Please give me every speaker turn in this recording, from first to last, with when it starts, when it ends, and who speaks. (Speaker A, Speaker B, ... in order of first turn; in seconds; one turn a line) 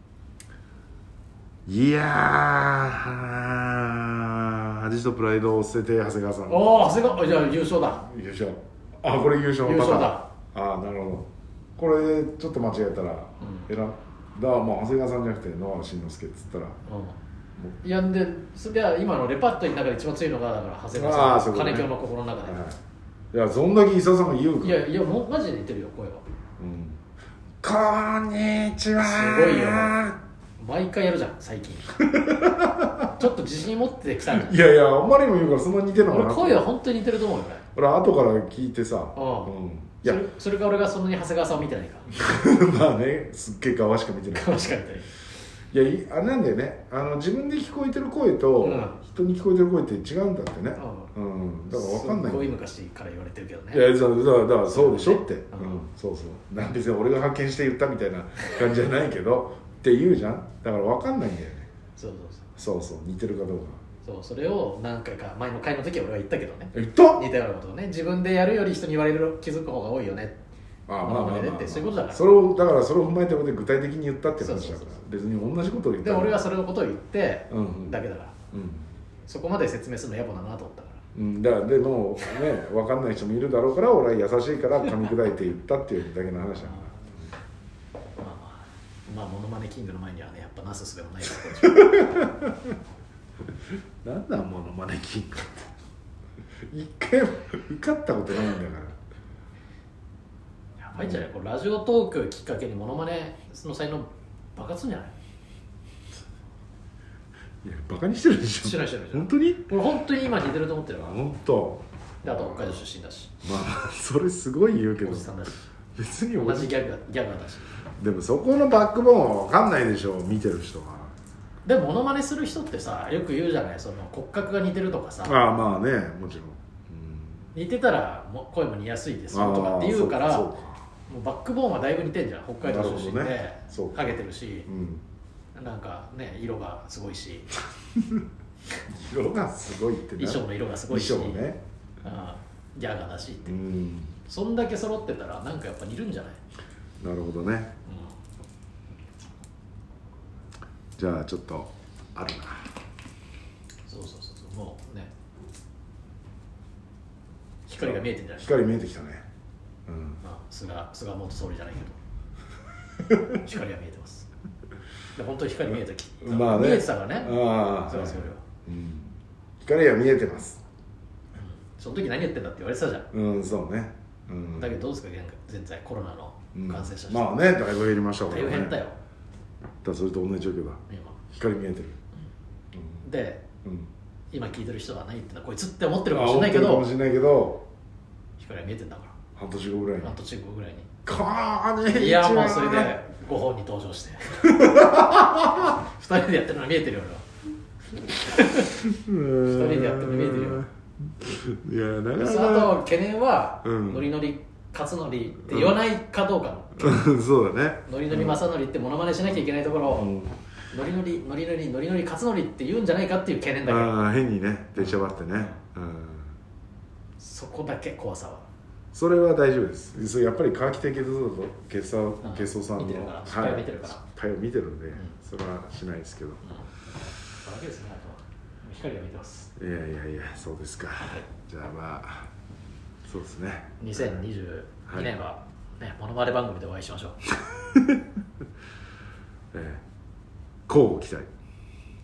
Speaker A: 1.7-7.1
Speaker B: 6.5-8.1
Speaker A: 7.9-16.8
Speaker B: 9.6-10.3
Speaker B: 13.4-13.7
Speaker B: 16.9-17.2
Speaker B: 17.8-22.7
Speaker A: 20.9-21.9
Speaker A: 22.4-22.8
Speaker A: 23.3-24.8
Speaker B: 24.6-26.2
Speaker A: 26.6-27.0
Speaker A: 27.6-30.2
Speaker B: 29.0-30.0
Speaker B: 30.6-32.0
Speaker A: 32.0-33.1
Speaker B: 33.1-34.5
Speaker A: 34.3-36.7
Speaker B: 36.1-37.6
Speaker A: 37.7-40.2
Speaker B: 39.1-42.1
Speaker A: 42.1-44.7
Speaker B: 44.3-45.1
Speaker A: 45.7-52.6
Speaker B: 48.6-49.0
Speaker B: 50.8-51.1
Speaker B: 51.7-53.9
Speaker A: 53.7-61.7
Speaker B: 54.6-55.8
Speaker B: 62.0-62.5
Speaker A: 62.6-63.8
Speaker B: 64.0-70.4
Speaker A: 66.7-67.2
Speaker A: 70.9-76.4
Speaker B: 71.0-72.3
Speaker B: 74.4-74.9
Speaker B: 76.0-78.3
Speaker A: 77.5-78.0
Speaker A: 78.5-78.9
Speaker B: 79.3-81.0
Speaker A: 81.1-87.3
Speaker B: 84.9-85.2
Speaker B: 86.6-86.9
Speaker B: 88.2-92.3
Speaker A: 91.6-92.7
Speaker A: 94.0-95.7
Speaker A: 96.7-99.0
Speaker B: 100.8-105.1
Speaker A: 101.0-101.2
Speaker A: 107.6-109.7
Speaker B: 108.6-111.2
Speaker A: 111.0-112.8
Speaker B: 112.2-113.3
Speaker A: 113.4-115.3
Speaker B: 115.0-115.7
Speaker A: 115.9-116.7
Speaker B: 116.3-117.8
Speaker A: 117.9-121.1
Speaker B: 121.6-125.4
Speaker A: 125.2-127.5
Speaker B: 127.5-130.5
Speaker A: 129.3-130.8
Speaker B: 131.1-134.7
Speaker A: 132.6-134.1
Speaker A: 134.7-135.0
Speaker B: 135.5-137.5
Speaker A: 138.9-141.6
Speaker B: 140.2-141.5
Speaker B: 142.0-143.6
Speaker A: 143.4-144.2
Speaker B: 144.2-146.4
Speaker A: 147.0-147.7
Speaker B: 147.8-148.1
Speaker A: 151.0-152.7
Speaker B: 153.9-155.1
Speaker B: 157.7-158.6
Speaker A: 157.8-159.3
Speaker A: 159.9-160.2
Speaker B: 160.2-162.0
Speaker B: 163.3-164.3
Speaker B: 165.1-168.4
Speaker A: 166.2-170.6
Speaker B: 171.3-173.1
Speaker A: 173.1-174.8
Speaker B: 174.6-177.3
Speaker A: 176.5-178.8
Speaker B: 178.3-179.0
Speaker A: 179.8-182.0
Speaker B: 180.9-181.2
Speaker A: 182.7-183.0
Speaker B: 183.0-183.4
Speaker A: 183.6-183.9
Speaker B: 184.3-186.9
Speaker A: 186.1-187.6
Speaker B: 188.4-189.2
Speaker A: 189.3-190.2
Speaker B: 190.0-190.9
Speaker A: 191.1-192.9
Speaker B: 191.9-197.2
Speaker A: 194.4-195.7
Speaker B: 198.2-198.8
Speaker A: 198.6-202.8
Speaker B: 199.4-200.7
Speaker B: 202.1-207.1
Speaker A: 203.6-204.1
Speaker A: 205.4-205.8
Speaker A: 206.8-208.4
Speaker B: 207.8-210.1
Speaker A: 209.9-210.4
Speaker B: 210.7-213.9
Speaker A: 213.6-216.3
Speaker B: 214.8-215.5
Speaker B: 217.2-218.4
Speaker A: 218.9-226.4
Speaker B: 222.2-224.0
Speaker B: 227.3-229.5
Speaker A: 229.6-232.3
Speaker A: 233.1-234.2
Speaker B: 233.8-237.2
Speaker A: 234.9-235.1
Speaker A: 237.5-238.0
Speaker A: 239.5-239.8
Speaker A: 240.7-241.3